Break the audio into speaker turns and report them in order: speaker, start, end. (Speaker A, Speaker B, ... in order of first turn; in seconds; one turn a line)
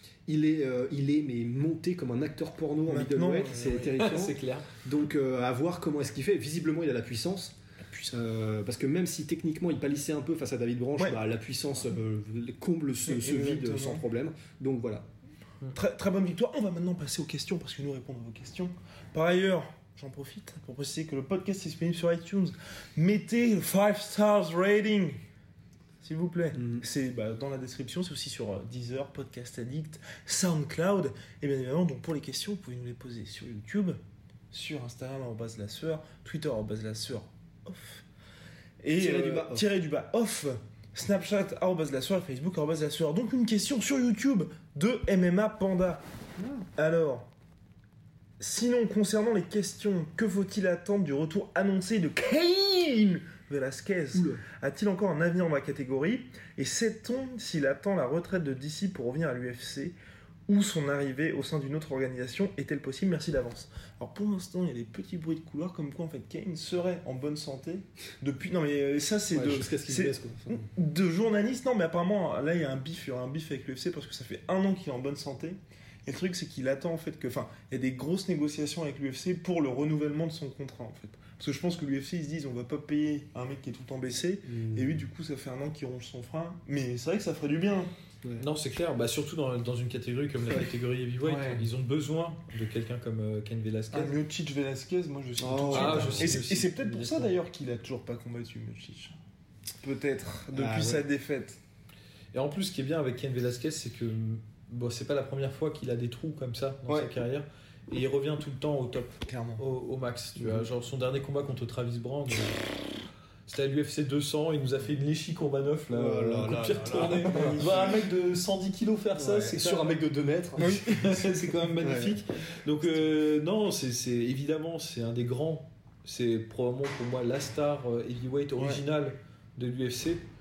Speaker A: 0.2-7.6
Speaker B: 2.9-3.8
Speaker C: 3.5-4.7
Speaker B: 7.8-8.1
Speaker A: 8.1-15.1
Speaker B: 13.1-14.0
Speaker B: 15.7-25.2
Speaker B: 26.0-34.0
Speaker A: 26.5-26.8
Speaker B: 34.5-38.0
Speaker B: 38.8-46.0
Speaker A: 39.0-39.7
Speaker A: 46.4-46.6
Speaker B: 46.8-47.3
Speaker B: 48.4-59.9
Speaker A: 54.1-54.4
Speaker B: 60.5-87.9
Speaker A: 69.3-70.7
Speaker A: 84.5-85.0
Speaker C: 88.4-94.1
Speaker B: 91.2-91.7
Speaker B: 93.9-99.2
Speaker A: 95.4-96.5
Speaker C: 95.7-97.3
Speaker B: 99.8-101.6
Speaker A: 100.5-101.1
Speaker C: 102.3-112.6
Speaker B: 109.2-109.6
Speaker C: 113.5-119.9
Speaker A: 115.9-118.0
Speaker B: 117.1-117.7
Speaker A: 119.2-120.8
Speaker C: 120.6-130.2
Speaker B: 120.6-121.3
Speaker A: 121.8-122.2